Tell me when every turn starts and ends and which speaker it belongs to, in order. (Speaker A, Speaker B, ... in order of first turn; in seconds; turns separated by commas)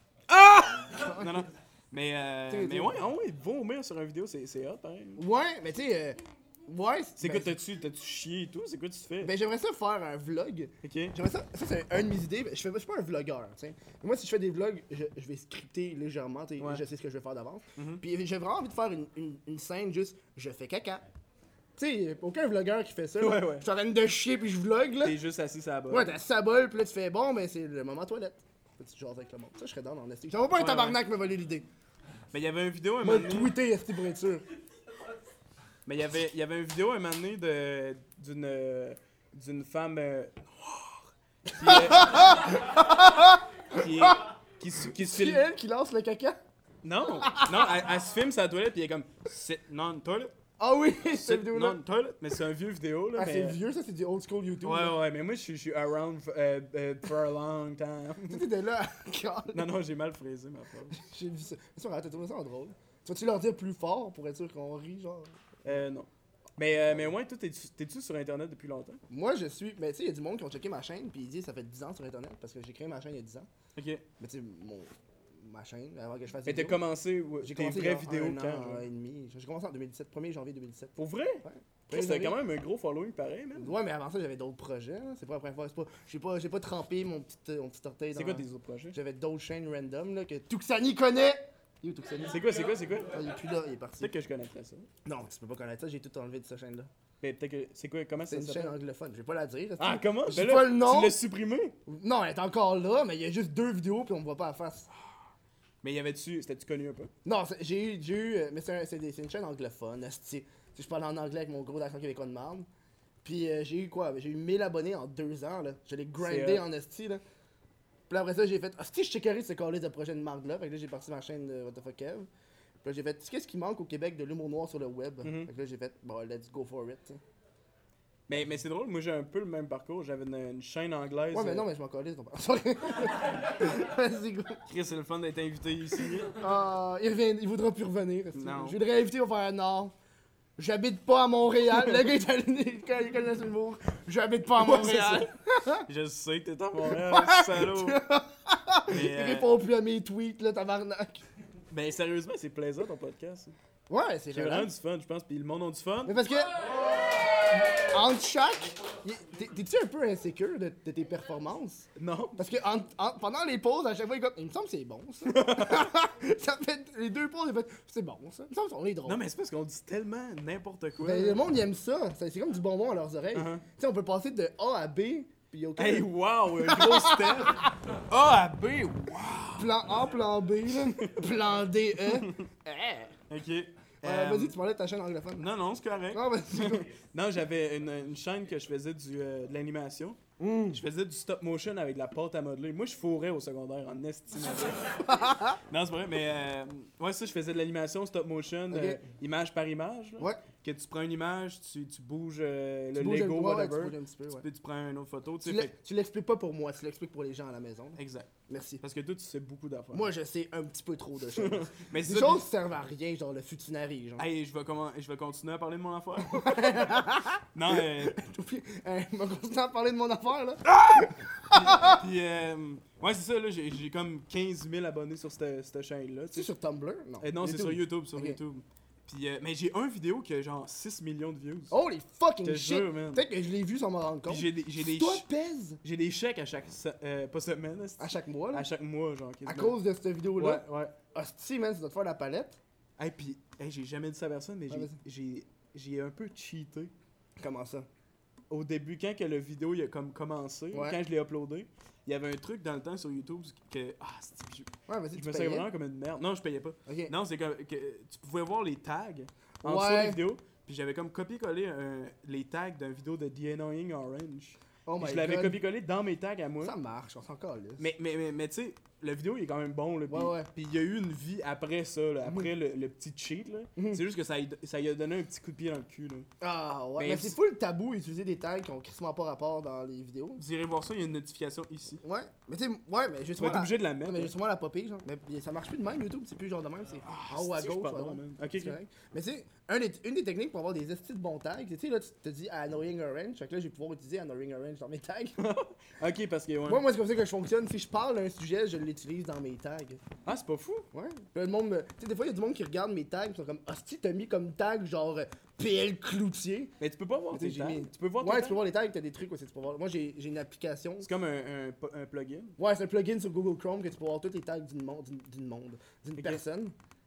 Speaker A: 0.3-5.2, Speaker B: 0.9-1.5, Speaker B: 2.5-3.0, Speaker B: 5.2-7.6, Speaker A: 7.2-9.3, Speaker B: 9.2-21.1, Speaker A: 10.8-11.2, Speaker A: 17.8-18.0, Speaker B: 21.8-25.2, Speaker A: 23.2-23.7, Speaker A: 25.0-26.1, Speaker B: 25.9-31.7, Speaker A: 30.6-31.0, Speaker A: 32.3-33.5, Speaker B: 33.0-34.5, Speaker A: 35.9-42.6, Speaker B: 41.6-44.2, Speaker A: 43.7-45.5, Speaker B: 44.9-46.4, Speaker A: 46.8-50.4, Speaker B: 47.1-47.8, Speaker B: 50.6-51.8, Speaker A: 51.1-53.6, Speaker B: 53.1-55.0, Speaker A: 54.6-58.4, Speaker B: 58.3-59.7, Speaker A: 59.5-61.0, Speaker B: 61.0-65.8, Speaker A: 65.7-69.0, Speaker B: 69.1-73.5, Speaker A: 73.8-74.0, Speaker B: 74.2-76.8, Speaker A: 76.5-78.8, Speaker B: 77.4-82.4, Speaker A: 81.0-83.7, Speaker B: 83.6-92.5, Speaker A: 88.1-89.0, Speaker A: 92.2-93.2, Speaker B: 93.1-94.1, Speaker A: 94.0-94.9, Speaker B: 95.0-96.9, Speaker A: 97.2-98.8, Speaker B: 98.3-101.2, Speaker A: 99.8-101.8, Speaker B: 101.9-104.9, Speaker A: 105.8-107.1, Speaker B: 107.2-112.7, Speaker B: 113.2-117.2, Speaker A: 116.2-116.7, Speaker B: 118.1-122.3, Speaker B: 122.8-127.2, Speaker A: 125.2-125.5, Speaker A: 128.3-131.7, Speaker B: 131.3-134.6, Speaker A: 134.7-136.4, Speaker B: 136.4-139.9, Speaker A: 138.3-138.8, Speaker B: 140.6-145.9, Speaker A: 144.6-145.3, Speaker A: 145.8-148.0, Speaker B: 146.8-151.2, Speaker A: 148.9-149.5, Speaker A: 151.7-153.6, Speaker B: 153.9-154.7, Speaker A: 154.3-156.2, Speaker B: 156.1-169.2, Speaker A: 162.0-162.6, Speaker A: 165.3-165.9, Speaker A: 169.1-171.4, Speaker B: 171.0-177.7, Speaker A: 173.3-173.6, Speaker A: 175.8-179.9, Speaker B: 179.6-183.2, Speaker A: 182.1-182.4, Speaker A: 183.3-184.6, Speaker B: 184.0-185.5, Speaker A: 185.4-195.1, Speaker B: 186.1-186.9, Speaker B: 190.4-190.8, Speaker B: 195.0-195.6, Speaker A: 195.7-205.8, Speaker B: 198.7-199.0, Speaker B: 200.2-200.4, Speaker B: 202.9-204.5, Speaker B: 205.4-208.8, Speaker A: 208.0-210.1, Speaker B: 209.9-214.2, Speaker A: 211.4-212.4, Speaker A: 214.2-217.0, Speaker B: 216.2-222.0, Speaker A: 217.5-218.2, Speaker A: 220.8-226.5, Speaker B: 226.3-228.4, Speaker A: 227.2-231.8, Speaker B: 231.7-235.8, Speaker A: 232.4-233.2, Speaker A: 234.3-235.2, Speaker A: 235.8-239.8, Speaker B: 238.0-238.7, Speaker B: 239.5-242.6, Speaker A: 240.4-241.0, Speaker A: 243.0-246.9, Speaker B: 244.7-245.0, Speaker B: 247.4-247.9, Speaker A: 248.5-266.8, Speaker B: 250.7-251.0, Speaker B: 254.9-255.7, Speaker B: 256.9-257.1, Speaker B: 259.6-260.2, Speaker B: 264.9-265.6, Speaker B: 266.6-267.9, Speaker A: 267.8-276.3, Speaker B: 270.1-270.5, Speaker B: 272.2-272.5, Speaker B: 273.8-274.0, Speaker B: 276.4-280.4, Speaker A: 277.0-277.4, Speaker A: 280.4-282.0, Speaker B: 282.0-295.4, Speaker A: 283.4-284.3, Speaker A: 287.1-288.8, Speaker A: 295.4-296.8, Speaker B: 296.7-300.0, Speaker A: 300.3-300.9, Speaker B: 300.9-306.8, Speaker A: 306.8-308.6, Speaker B: 307.3-311.1, Speaker A: 311.0-312.6, Speaker B: 312.6-316.8, Speaker A: 316.2-316.4